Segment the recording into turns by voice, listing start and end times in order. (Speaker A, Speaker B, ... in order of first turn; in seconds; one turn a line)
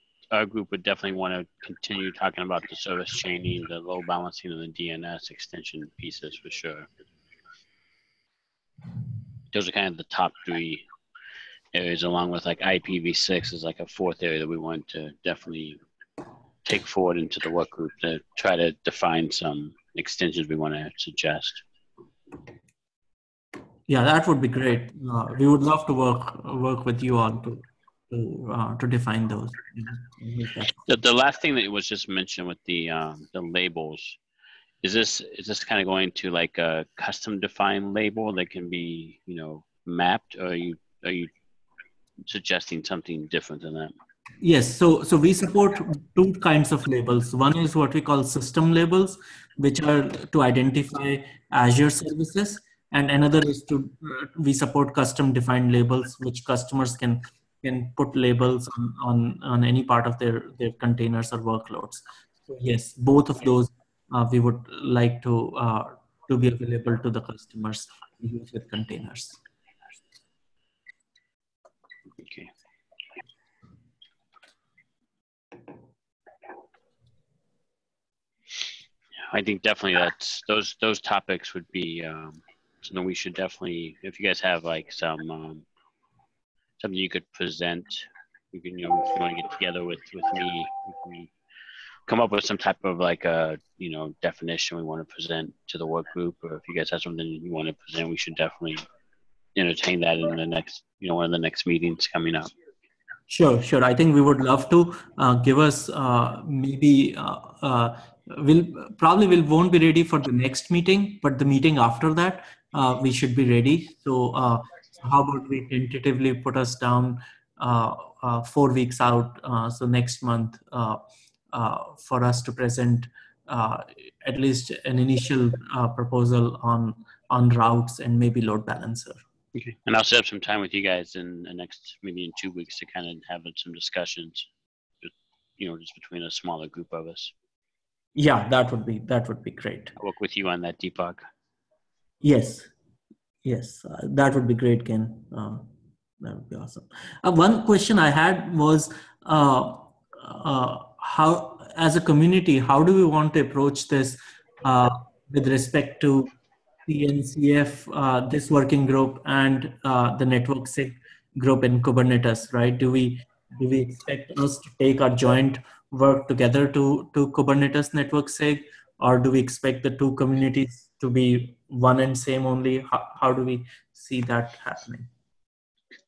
Speaker A: 0.3-6.9
Speaker A: 9.5-10.8
Speaker A: 11.7-15.8
Speaker A: 16.6-21.6
Speaker B: 23.9-30.9
Speaker A: 30.9-34.2
Speaker A: 34.8-41.3
Speaker A: 42.2-43.9
Speaker B: 44.4-69.4
Speaker A: 72.2-72.5
Speaker A: 79.3-85.6
Speaker A: 86.8-91.3
Speaker A: 92.1-98.8
Speaker A: 99.5-102.5
Speaker B: 103.3-129.2
Speaker A: 129.5-134.5
Speaker A: 135.0-137.3
Speaker B: 138.2-139.9
Speaker A: 140.0-141.2
Speaker B: 142.2-142.7
Speaker B: 143.4-145.7
Speaker B: 146.2-156.3
Speaker B: 156.8-175.1